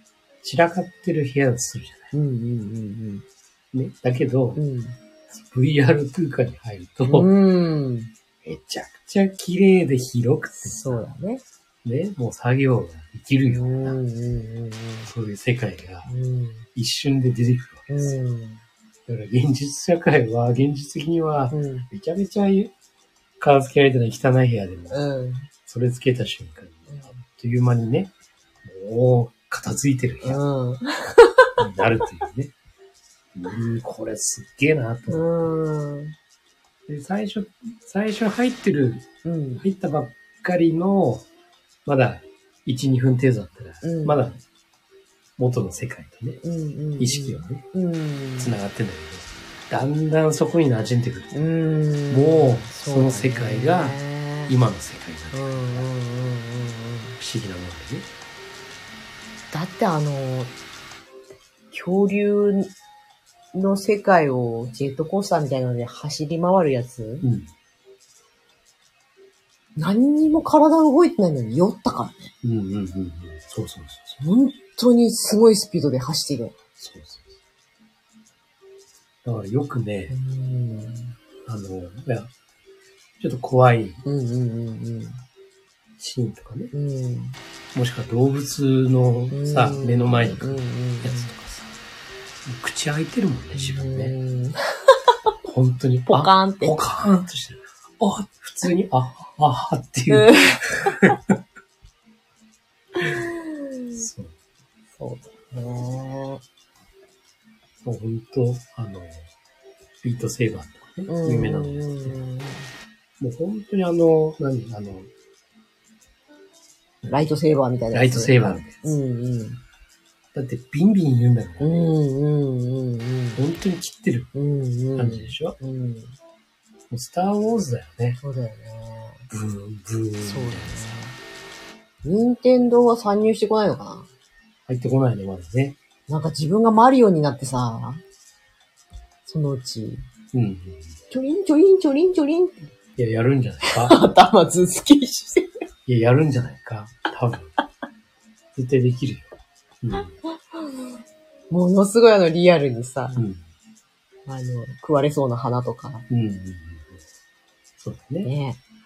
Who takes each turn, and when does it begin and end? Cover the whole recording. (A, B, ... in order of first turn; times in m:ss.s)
0:00.4-0:02.1 A
0:02.1-0:03.2 B
0:03.7-0:04.6 A
0:04.5-0:05.0 B
0:05.3-0:07.3 A
0:07.1-0:08.1 B
0:08.4-0:11.0 A
0:10.6-0:11.4 B
0:11.8-0:14.0 A
0:13.5-0:15.1 B
0:15.0-0:16.1 A
0:16.0-0:16.7 B
0:16.7-0:18.2 A
0:17.9-0:18.6 B
0:19.1-0:22.7 A
0:21.5-0:21.9 B
0:23.4-0:25.0 A
0:24.9-0:25.5 B
0:25.6-0:28.1 A
0:26.9-0:27.1 B
0:28.6-0:30.4 A
0:30.2-0:31.6 B
0:31.6-0:32.5 A
0:33.3-0:35.5 A
0:35.1-0:36.1 B
0:36.9-0:39.1 A
0:39.2-0:39.6 B
0:39.6-0:41.3 A
0:41.8-0:44.4 A
0:43.8-0:44.3 B
0:45.4-0:46.4 A
0:46.4-0:48.5 B
0:47.0-0:47.6 A
0:48.4-0:51.4 A
0:51.3-0:54.6 B
0:52.1-0:55.8 A
0:55.3-0:57.2 B
0:57.2-0:58.1 A
0:59.5-1:00.5 B
1:01.7-1:02.7 B
1:03.5-1:07.3 B
1:07.2-1:07.5 A
1:09.8-1:12.3 B
1:12.4-1:14.2 A
1:14.2-1:16.5 B
1:16.8-1:17.3 A
1:19.2-1:20.1 A
1:20.1-1:21.2 B
1:21.4-1:22.3 A
1:23.2-1:24.0 A
1:24.0-1:25.2 B
1:26.0-1:26.7 A
1:26.7-1:27.4 B
1:27.7-1:31.7 A
1:29.3-1:31.3 B
1:32.4-1:34.1 A
1:33.5-1:35.0 B
1:35.4-1:41.4 A
1:36.1-1:36.8 B
1:40.1-1:41.2 B
1:43.0-1:44.0 B
1:44.0-1:44.3 A
1:45.0-1:46.4 B
1:47.8-1:49.3 A
1:50.0-1:52.2 A
1:51.1-1:52.7 B
1:53.2-1:55.1 A
1:57.0-1:59.6 B
1:57.9-1:58.8 A
2:00.3-2:01.9 A
2:01.6-2:03.4 B
2:03.4-2:04.3 A
2:04.3-2:06.2 B
2:04.9-2:05.6 A
2:06.9-2:08.2 A
2:08.2-2:09.3 B
2:09.3-2:11.0 A
2:10.2-2:11.2 B
2:12.0-2:14.1 B
2:14.7-2:15.8 A
2:16.1-2:18.0 B
2:19.2-2:20.0 B
2:20.3-2:21.0 A
2:21.1-2:22.7 B
2:23.0-2:24.0 A
2:23.6-2:25.6 B
2:25.9-2:27.5 A
2:28.5-2:30.1 A
2:29.9-2:30.9 B
2:31.5-2:33.2 B
2:33.2-2:33.4 A
2:34.3-2:36.1 B
2:36.1-2:37.0 A
2:37.8-2:38.3 A
2:38.2-2:38.6 B